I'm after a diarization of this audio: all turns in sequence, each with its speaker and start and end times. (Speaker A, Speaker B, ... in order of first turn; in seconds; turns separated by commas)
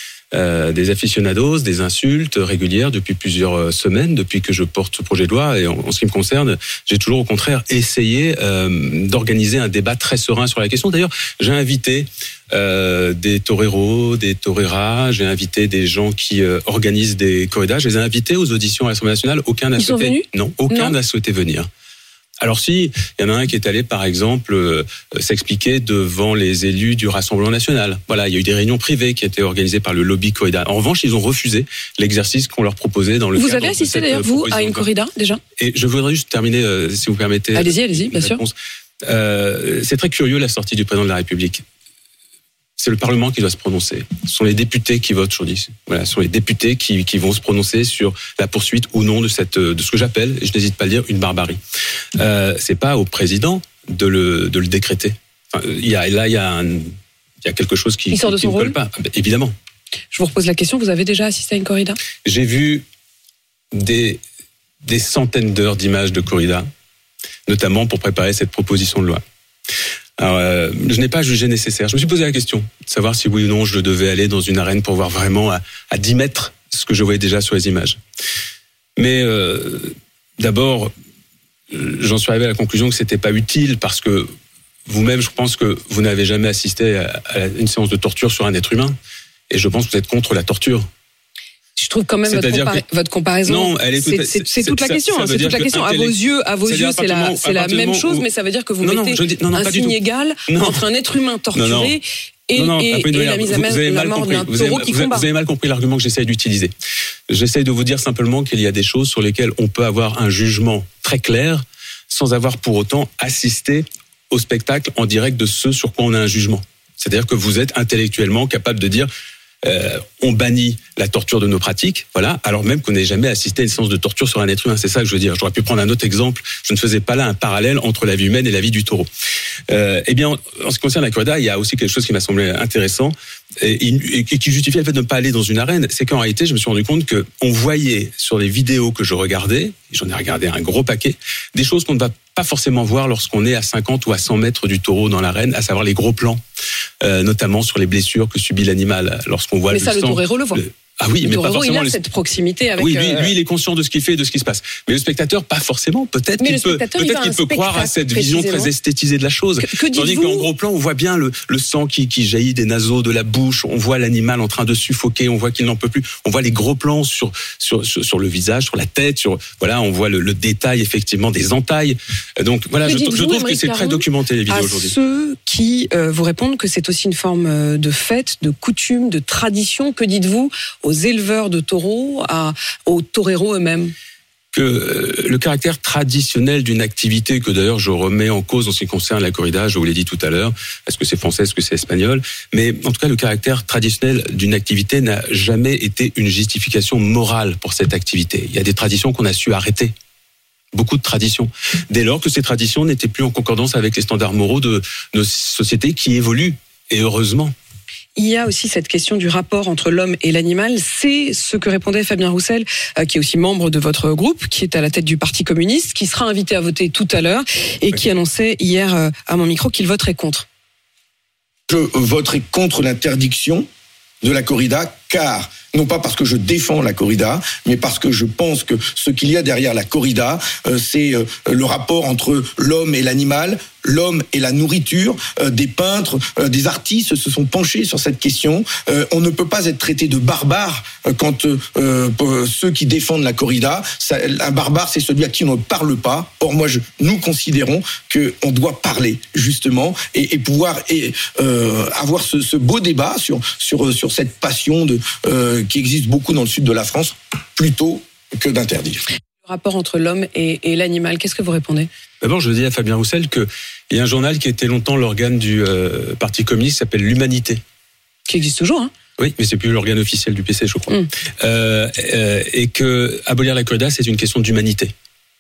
Speaker A: 0.3-21.7, Speaker B: 19.8-20.9, Speaker A: 22.4-34.9, Speaker B: 33.4-35.4, Speaker A: 35.6-38.5, Speaker B: 37.5-38.4, Speaker A: 39.1-41.6, Speaker A: 42.8-51.6, Speaker A: 52.2-59.5, Speaker B: 58.1-58.8, Speaker B: 60.1-62.0, Speaker A: 62.2-62.8, Speaker A: 63.7-64.2, Speaker A: 64.8-66.7, Speaker A: 67.5-69.2, Speaker A: 70.2-78.0, Speaker A: 79.0-80.9, Speaker A: 81.7-84.3, Speaker A: 84.9-89.0, Speaker A: 89.5-90.9, Speaker B: 91.8-105.3, Speaker A: 92.3-92.8, Speaker A: 93.5-98.2, Speaker A: 98.8-100.0, Speaker A: 100.5-100.8, Speaker A: 101.5-102.0, Speaker A: 102.5-106.7, Speaker A: 107.3-119.1, Speaker A: 119.6-129.1, Speaker A: 129.7-146.4, Speaker A: 147.0-152.0, Speaker B: 149.7-150.6, Speaker B: 151.2-153.3, Speaker A: 152.8-174.9, Speaker B: 156.4-158.7, Speaker B: 159.6-160.5, Speaker B: 172.8-183.9, Speaker A: 184.5-199.9, Speaker A: 200.7-207.5, Speaker B: 208.2-220.5, Speaker C: 221.7-223.7, Speaker C: 224.2-259.0, Speaker B: 259.4-261.9, Speaker A: 262.2-267.6, Speaker B: 268.3-268.9, Speaker A: 269.2-274.9